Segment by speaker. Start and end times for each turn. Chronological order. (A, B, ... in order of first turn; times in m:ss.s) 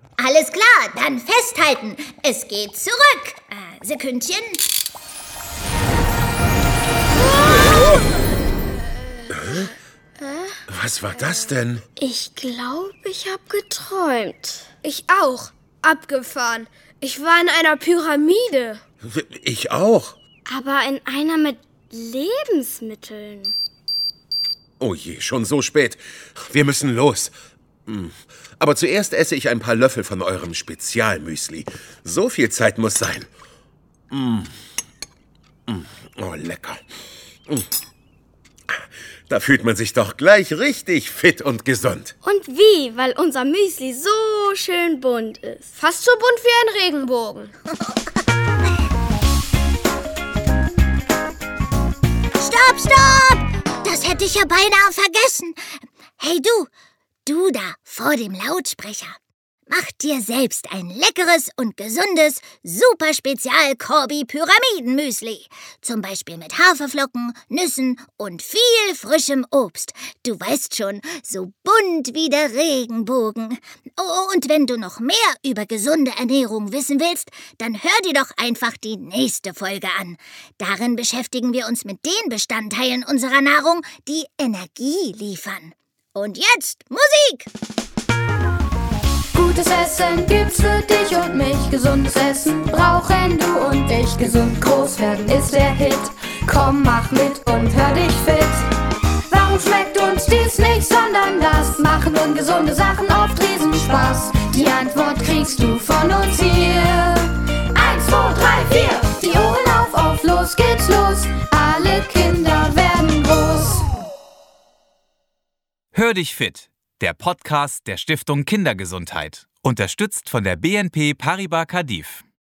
0:00.2-0:04.6 A
0:07.4-0:08.3 B
0:09.0-0:09.6 B
0:09.3-0:09.7 C
0:10.2-0:10.6 D
0:10.7-0:11.8 C
0:12.0-0:14.7 D
0:14.8-0:18.8 B
0:19.0-0:20.2 C
0:20.5-0:23.5 D
0:24.8-0:27.3 C
0:27.9-0:33.3 C
0:34.1-0:34.5 C
0:35.7-0:36.8 C
0:38.7-0:42.1 C
0:42.2-0:45.7 D
0:45.8-0:47.5 B
0:52.4-0:55.6 A
0:56.2-0:56.7 A
0:57.2-0:59.2 A
0:59.7-1:27.5 A
1:29.3-1:38.7 E
1:39.3-1:53.8 E
1:55.9-2:02.2 F